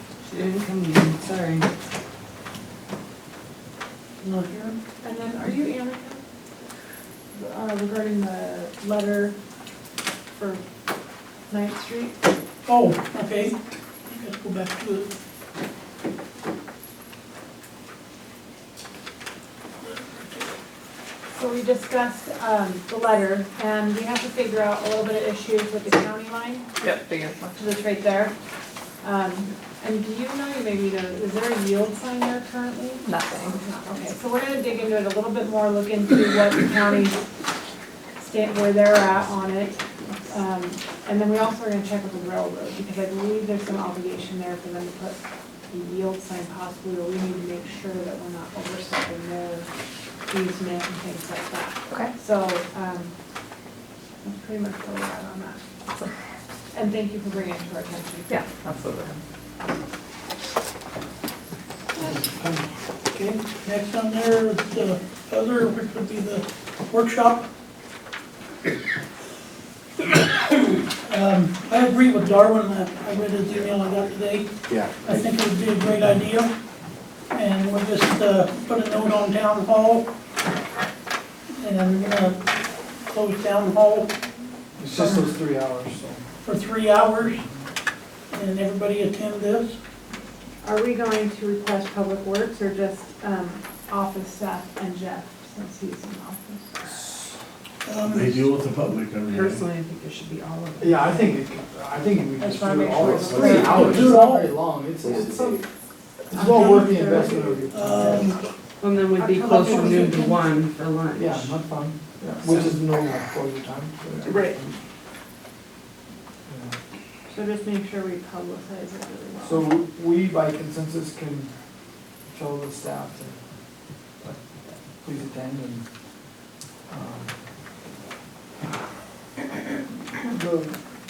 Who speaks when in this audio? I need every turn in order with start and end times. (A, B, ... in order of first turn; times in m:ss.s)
0:00.2-0:01.6 A
0:04.2-0:04.8 B
0:05.0-0:06.2 C
0:07.3-0:09.4 C
0:10.4-0:10.6 C
0:11.5-0:12.2 C
0:12.6-0:13.5 B
0:14.1-0:15.1 B
0:19.9-0:20.4 B
0:21.3-0:26.7 C
0:26.8-0:27.5 A
0:27.6-0:28.3 C
0:29.0-0:37.2 C
0:33.0-0:33.6 A
0:38.2-0:49.7 C
0:50.3-0:53.1 C
0:54.2-0:55.6 C
0:56.7-0:58.3 C
0:58.3-0:59.2 A
1:02.0-1:02.6 D
1:03.1-1:07.5 B
1:10.5-1:16.5 B
1:17.3-1:20.1 B
1:21.6-1:22.4 B
1:23.1-1:24.1 B
1:24.8-1:26.2 D
1:26.4-1:27.4 B
1:28.3-1:29.8 B
1:30.6-1:36.7 C
1:36.8-1:37.3 D
1:37.8-1:38.4 B
1:38.0-1:39.6 E
1:39.3-1:41.3 A
1:40.8-1:45.6 D
1:42.4-1:44.2 C
1:43.0-1:44.0 E
1:43.4-1:44.5 B
1:46.3-1:48.3 D
1:46.3-1:48.4 B
1:46.8-1:47.6 C
1:48.8-1:51.6 A
1:49.1-1:50.4 C
1:49.5-1:50.3 B
1:51.1-1:54.8 D
1:54.3-1:54.6 A
1:56.5-1:56.8 D
1:57.3-1:59.8 C
1:59.4-2:01.5 D
2:02.3-2:03.4 D
2:05.0-2:05.8 D
2:06.9-2:07.3 D
2:10.2-2:10.8 D